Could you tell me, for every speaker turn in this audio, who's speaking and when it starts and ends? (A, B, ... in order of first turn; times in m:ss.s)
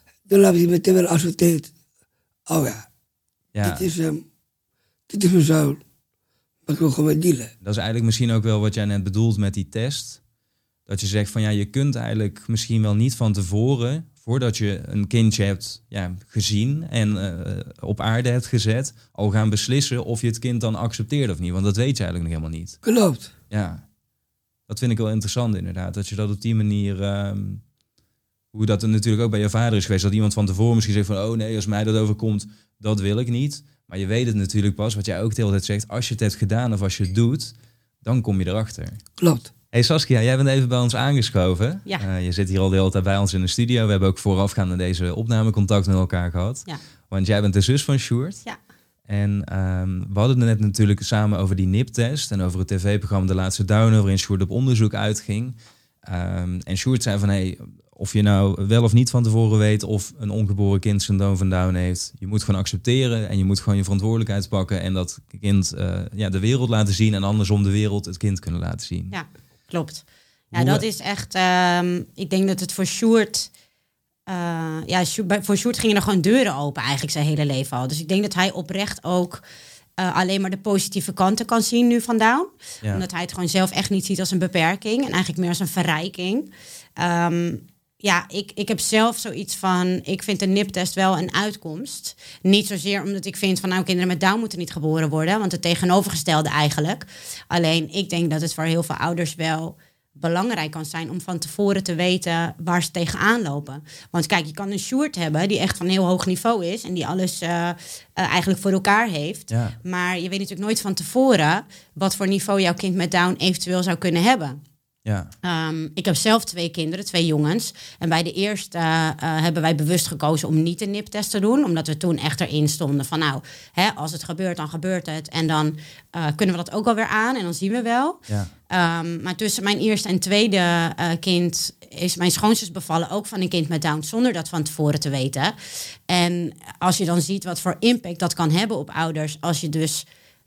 0:00.3-0:01.7 A
0:02.5-0:02.9 A
0:03.5-0:03.9 B
0:03.6-0:04.2 A
0:05.1-0:05.8 A
0:06.7-0:07.5 A
0:07.6-0:10.2 B
0:10.9-0:22.8 B
0:22.8-0:23.3 A
0:23.5-0:23.8 B
0:24.7-0:27.6 B
0:28.5-0:39.0 B
0:39.2-0:39.5 A
0:39.7-0:48.4 B
0:49.1-1:09.1 B
1:09.1-1:13.5 C
1:10.5-1:10.8 B
1:14.3-1:19.4 C
1:20.0-1:54.6 C
1:49.5-1:49.8 B
1:55.1-1:55.3 B
1:55.4-2:15.6 C
2:16.1-2:20.1 C